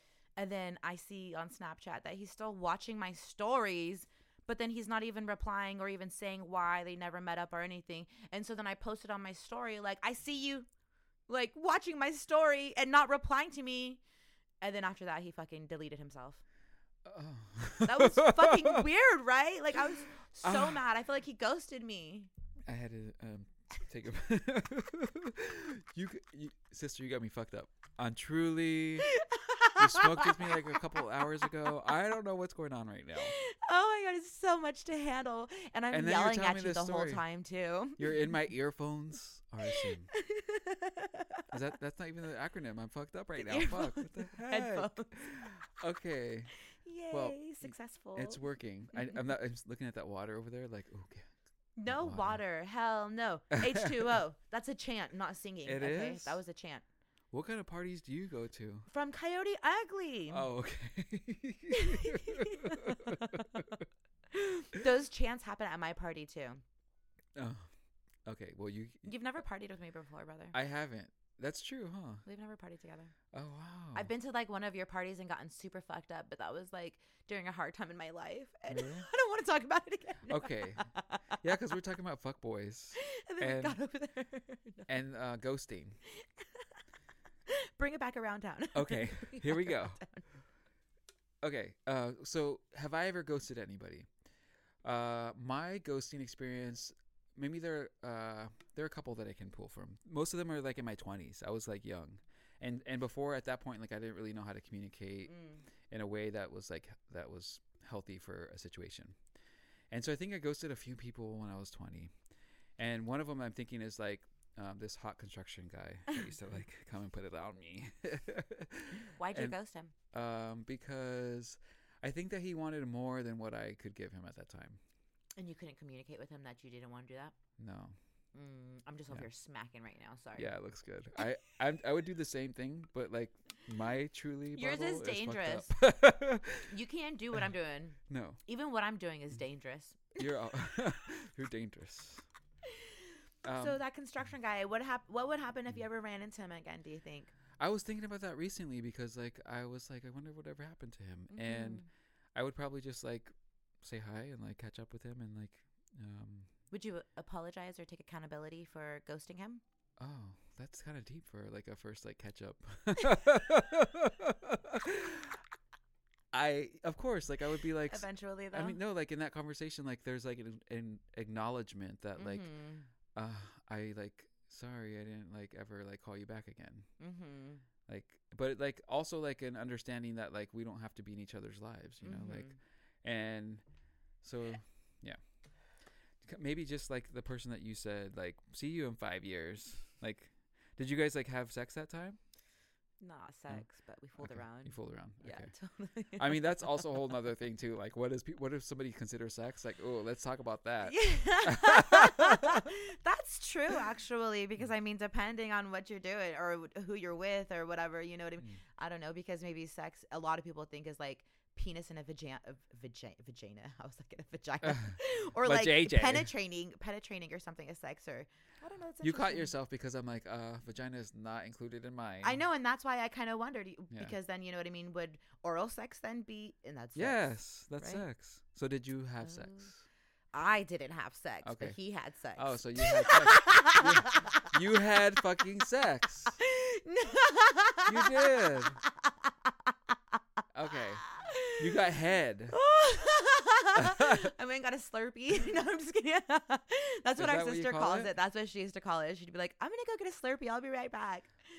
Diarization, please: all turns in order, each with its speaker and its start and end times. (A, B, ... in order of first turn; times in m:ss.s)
0:00.4-0:10.7 A
0:11.3-0:14.0 A
0:14.6-0:16.4 A
0:17.0-0:18.8 B
0:17.8-0:22.3 A
0:20.4-0:20.8 B
0:22.7-0:29.1 B
0:29.1-0:31.5 A
0:29.8-0:33.4 B
0:33.2-0:38.3 A
0:35.9-0:37.2 B
0:38.0-0:40.1 B
0:39.7-0:41.4 A
0:41.5-0:46.5 B
0:43.4-0:45.6 A
0:46.7-0:48.4 A
0:47.1-0:51.3 B
0:51.8-0:56.8 A
0:51.9-0:52.4 B
0:53.6-0:54.1 B
0:55.6-0:56.4 B
0:57.3-0:58.9 B
0:58.9-1:00.5 A
1:00.3-1:03.9 B
1:01.7-1:03.6 A
1:04.3-1:06.6 A
1:07.4-1:07.7 B
1:08.2-1:09.1 B
1:09.0-1:10.6 A
1:10.5-1:12.2 B
1:12.2-1:13.1 A
1:13.3-1:14.1 B
1:13.9-1:21.4 A
1:18.7-1:19.1 B
1:20.3-1:20.9 B
1:21.4-1:23.8 B
1:23.0-1:24.9 A
1:24.9-1:26.0 B
1:26.2-1:26.6 A
1:27.5-1:30.2 A
1:28.7-1:30.0 B
1:31.4-1:34.1 B
1:34.8-1:45.4 B
1:45.3-1:45.6 A
1:45.9-1:49.2 B
1:49.9-1:52.1 B
1:52.8-1:59.6 B
1:59.2-1:59.9 A
2:00.1-2:04.8 B
2:05.4-2:07.4 A
2:07.6-2:08.0 B
2:08.3-2:10.6 A
2:10.4-2:16.7 B
2:14.6-2:15.7 A
2:16.7-2:20.3 A
2:18.1-2:18.4 B
2:20.2-2:22.2 B
2:23.4-2:23.8 B
2:23.6-2:27.3 A
2:27.6-2:31.8 B
2:31.3-2:31.9 A
2:32.4-2:36.5 B
2:36.7-2:39.6 A
2:40.0-2:45.4 B
2:46.3-2:52.5 B
2:47.9-2:48.8 A
2:52.2-2:52.9 A
2:53.2-2:56.9 B
2:57.0-2:57.6 A
2:57.9-3:03.6 B
3:02.0-3:02.6 A
3:04.2-3:05.2 B
3:06.2-3:12.2 B
3:13.0-3:16.7 A
3:14.2-3:15.5 B
3:16.2-3:22.6 B
3:20.8-3:39.5 A
3:34.6-3:36.3 B
3:39.0-3:42.4 B
3:42.2-3:48.0 A
3:47.0-3:49.8 B
3:49.2-3:49.7 A
3:50.3-3:54.5 A
3:51.4-3:51.8 B
3:52.3-3:56.4 B
3:56.4-3:59.5 A
3:57.9-3:58.8 B
4:00.5-4:02.6 B
4:01.0-4:01.8 A
4:02.5-4:11.3 A
4:03.8-4:04.3 B
4:07.2-4:08.1 B